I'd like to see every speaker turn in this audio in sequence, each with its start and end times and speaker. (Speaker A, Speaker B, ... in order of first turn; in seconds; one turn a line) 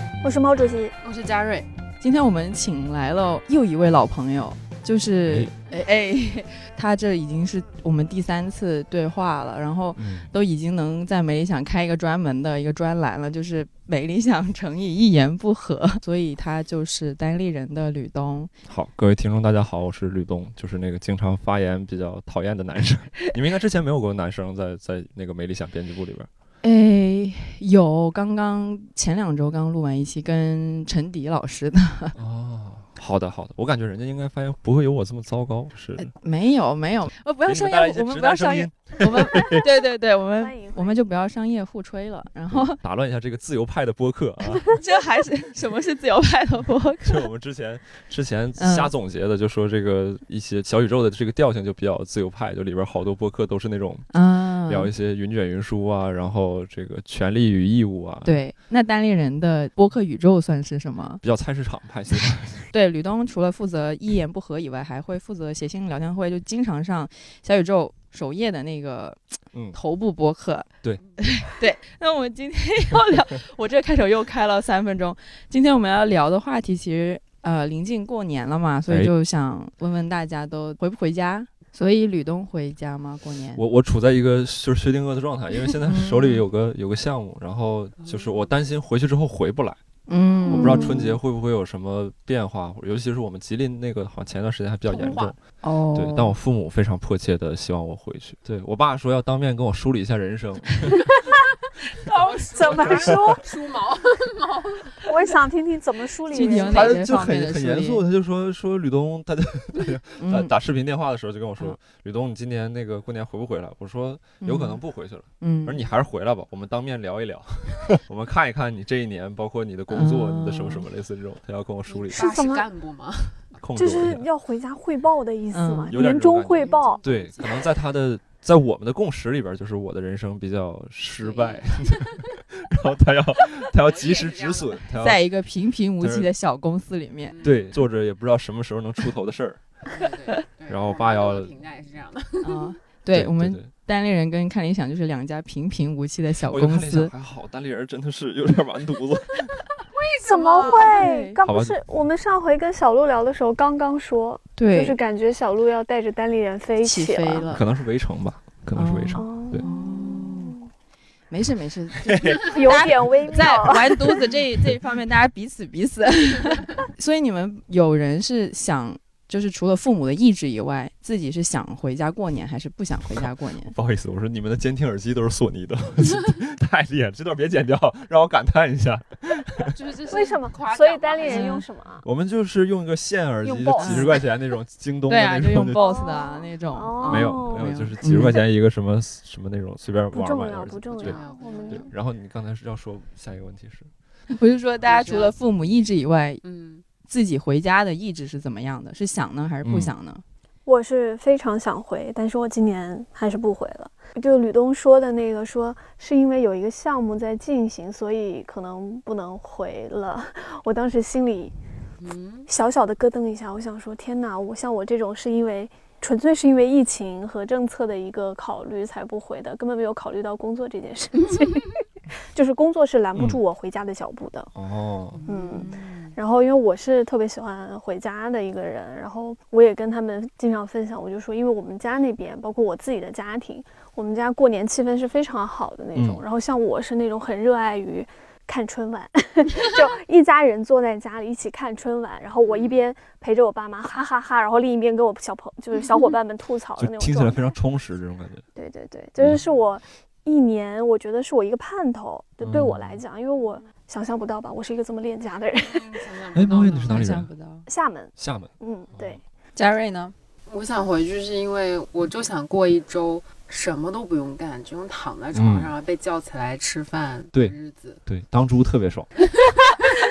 Speaker A: 0.2-0.9
Speaker B: 1.0-1.7
Speaker C: 2.0-18.5
Speaker D: 5.3-5.5
Speaker D: 10.0-10.3
Speaker D: 18.7-26.3
Speaker C: 26.6-32.1
Speaker D: 32.1-36.1
Speaker C: 36.0-42.8
Speaker D: 37.5-39.6
Speaker A: 40.4-41.0
Speaker D: 42.5-44.8
Speaker C: 44.7-47.3
Speaker D: 47.0-54.1
Speaker C: 48.6-48.9
Speaker C: 54.1-54.9
Speaker D: 54.7-58.4
Speaker C: 58.2-61.2
Speaker D: 61.2-62.7
Speaker C: 62.7-83.6
Speaker D: 69.5-69.8
Speaker D: 83.5-89.8
Speaker C: 85.8-86.4
Speaker B: 88.0-88.5
Speaker C: 90.1-91.2
Speaker D: 90.5-95.4
Speaker A: 90.5-90.9
Speaker B: 94.9-95.3
Speaker C: 95.6-96.3
Speaker D: 95.9-101.1
Speaker B: 102.0-105.3
Speaker A: 102.5-103.4
Speaker D: 102.7-103.3
Speaker A: 105.0-107.0
Speaker C: 106.3-108.0
Speaker B: 106.3-106.7
Speaker D: 106.6-122.4
Speaker C: 110.2-110.5
Speaker C: 114.4-114.8
Speaker C: 115.4-115.8
Speaker C: 119.9-120.9
Speaker B: 121.9-123.5
Speaker A: 122.1-122.6
Speaker D: 123.6-124.2
Speaker A: 123.7-127.0
Speaker C: 125.5-126.0
Speaker D: 125.9-135.3
Speaker B: 126.5-127.7
Speaker B: 131.2-132.2
Speaker B: 133.7-134.8
Speaker C: 135.0-137.3
Speaker D: 136.0-136.3
Speaker B: 137.3-137.8
Speaker D: 137.4-139.6
Speaker B: 139.9-142.7
Speaker D: 140.7-141.5
Speaker C: 142.4-147.1
Speaker D: 143.1-143.7
Speaker D: 146.5-149.6
Speaker B: 149.9-151.1
Speaker A: 150.2-157.5
Speaker C: 150.6-151.4
Speaker D: 151.4-151.8
Speaker C: 154.6-155.0
Speaker C: 156.8-157.6
Speaker D: 157.5-159.6
Speaker C: 158.7-160.6
Speaker A: 159.1-160.7
Speaker C: 161.3-173.7
Speaker D: 162.0-163.1
Speaker A: 162.4-164.2
Speaker D: 173.7-179.7
Speaker B: 179.7-181.6
Speaker A: 180.1-182.0
Speaker C: 181.2-181.7
Speaker D: 182.0-185.9
Speaker A: 183.4-184.2
Speaker C: 183.8-184.2
Speaker C: 185.1-188.4
Speaker A: 185.8-187.7
Speaker D: 187.1-193.9
Speaker A: 190.1-191.9
Speaker B: 191.0-191.9
Speaker C: 194.3-196.4
Speaker B: 194.8-195.3
Speaker B: 196.4-196.8
Speaker C: 197.0-200.2
Speaker D: 199.6-199.9
Speaker A: 200.7-211.5
Speaker B: 212.0-212.5
Speaker A: 212.5-224.5
Speaker D: 224.6-225.2
Speaker A: 225.2-247.5
Speaker C: 225.3-226.2
Speaker D: 235.9-236.2
Speaker B: 242.4-242.8
Speaker D: 246.8-248.4
Speaker A: 248.5-256.1
Speaker D: 252.4-253.0
Speaker B: 255.6-257.1
Speaker D: 256.3-257.3
Speaker C: 256.6-257.7
Speaker A: 257.7-259.2
Speaker D: 258.2-259.2
Speaker C: 259.5-260.1
Speaker B: 260.5-268.0
Speaker D: 265.3-265.7
Speaker D: 268.1-269.1
Speaker B: 269.4-269.9